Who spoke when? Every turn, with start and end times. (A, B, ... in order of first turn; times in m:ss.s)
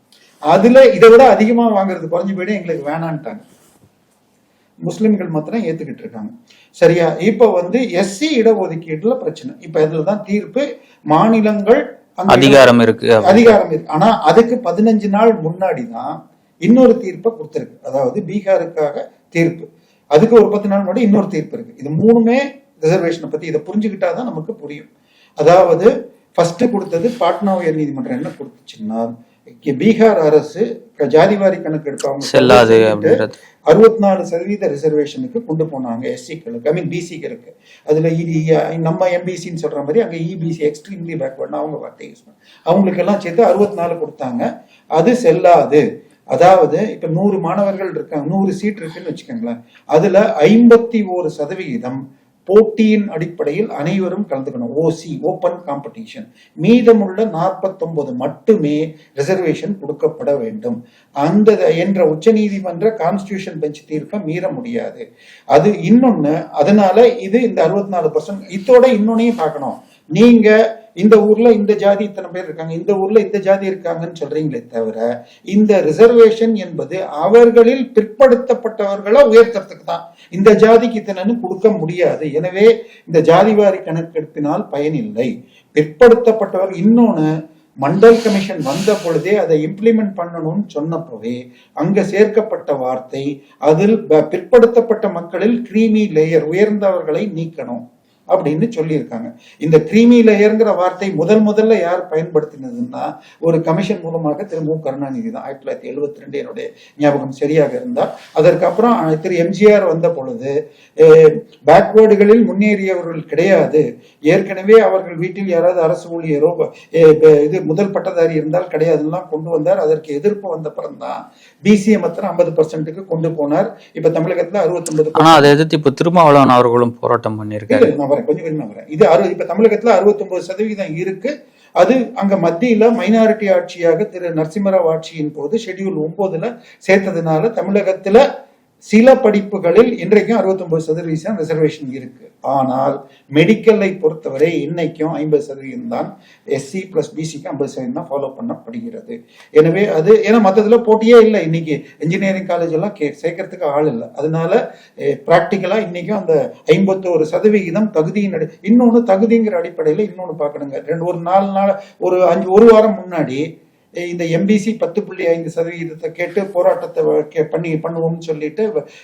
0:00.5-0:03.4 A
0:04.9-0:16.1 A
0:12.3-0:13.5 B
0:16.6-0:24.9 A
0:25.4-0:29.1 A
0:29.6-0:44.4 A
0:32.2-0:33.4 B
0:45.0-1:27.3 A
1:27.8-2:05.5 A
2:05.2-2:07.9 B
2:07.7-2:18.2 A
2:18.9-2:43.4 A
2:44.0-2:48.7 A